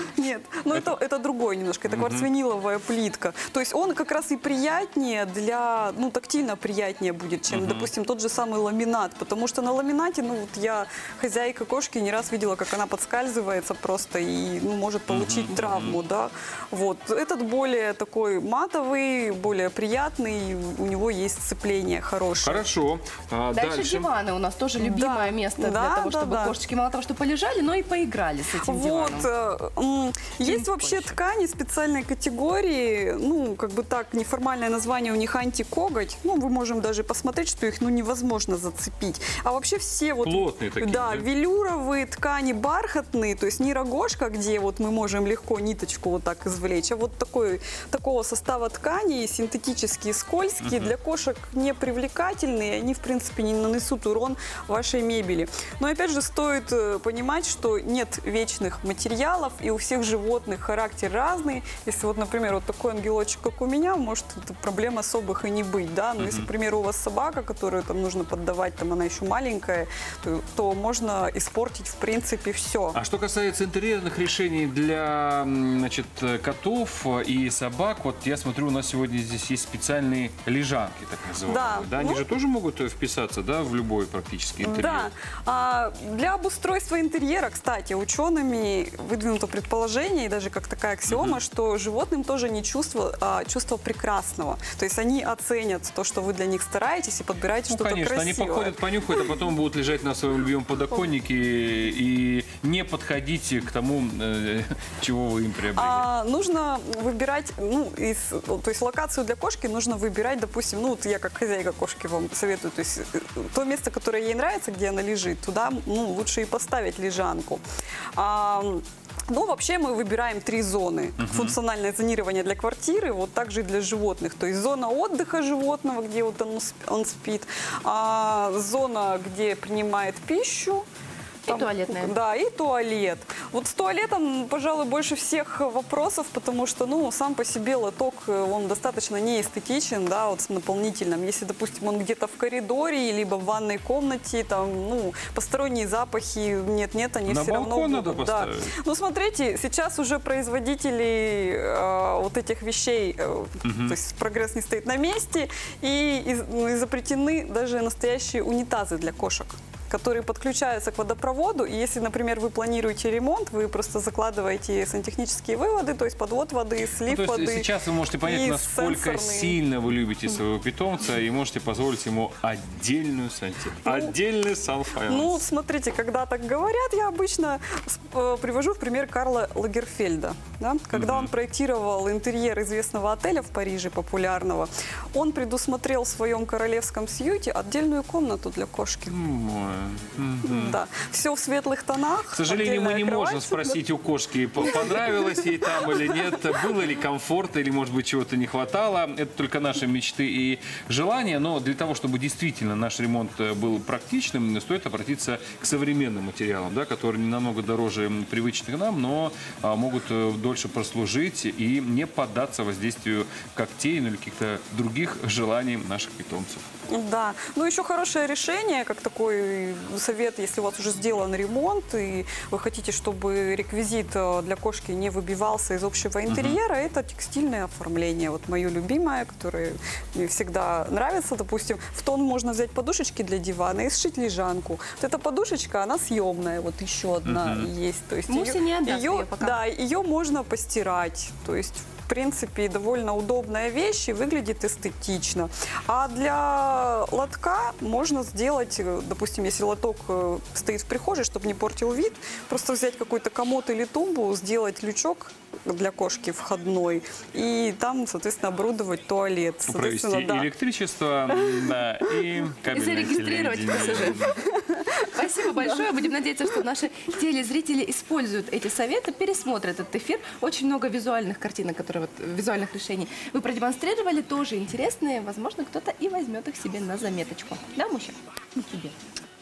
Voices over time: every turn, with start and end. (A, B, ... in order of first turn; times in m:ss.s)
0:00.2-0:22.7 A
0:01.9-0:02.3 B
0:07.5-0:07.9 B
0:15.1-0:16.0 B
0:22.4-0:24.1 B
0:23.5-0:29.3 C
0:24.8-0:26.6 A
0:28.6-1:13.0 A
0:30.4-0:31.2 C
0:40.2-0:41.2 B
0:50.6-0:50.9 B
1:06.2-1:06.5 B
1:12.9-1:25.1 B
1:21.4-1:22.2 A
1:24.6-1:39.0 A
1:31.1-1:31.4 B
1:37.7-1:46.1 B
1:45.7-1:57.6 A
1:58.2-2:10.8 A
2:01.2-2:01.6 B
2:11.5-2:12.2 C
2:11.5-2:47.7 A
2:27.3-2:28.8 B
2:33.6-2:34.0 B
2:47.0-2:55.4 B
2:48.2-2:49.6 A
2:53.8-2:54.2 A
2:55.1-3:09.2 A
3:00.9-3:01.3 B
3:09.1-3:10.8 B
3:10.4-3:13.8 A
3:12.3-3:36.6 B
3:14.8-3:15.1 A
3:36.9-4:20.5 A
3:46.3-3:46.6 B
3:57.2-3:57.7 B
3:58.3-3:59.6 C
4:19.7-4:24.3 B
4:21.4-4:21.7 A
4:22.7-4:24.3 C
4:24.7-4:25.1 A
4:25.0-4:39.0 C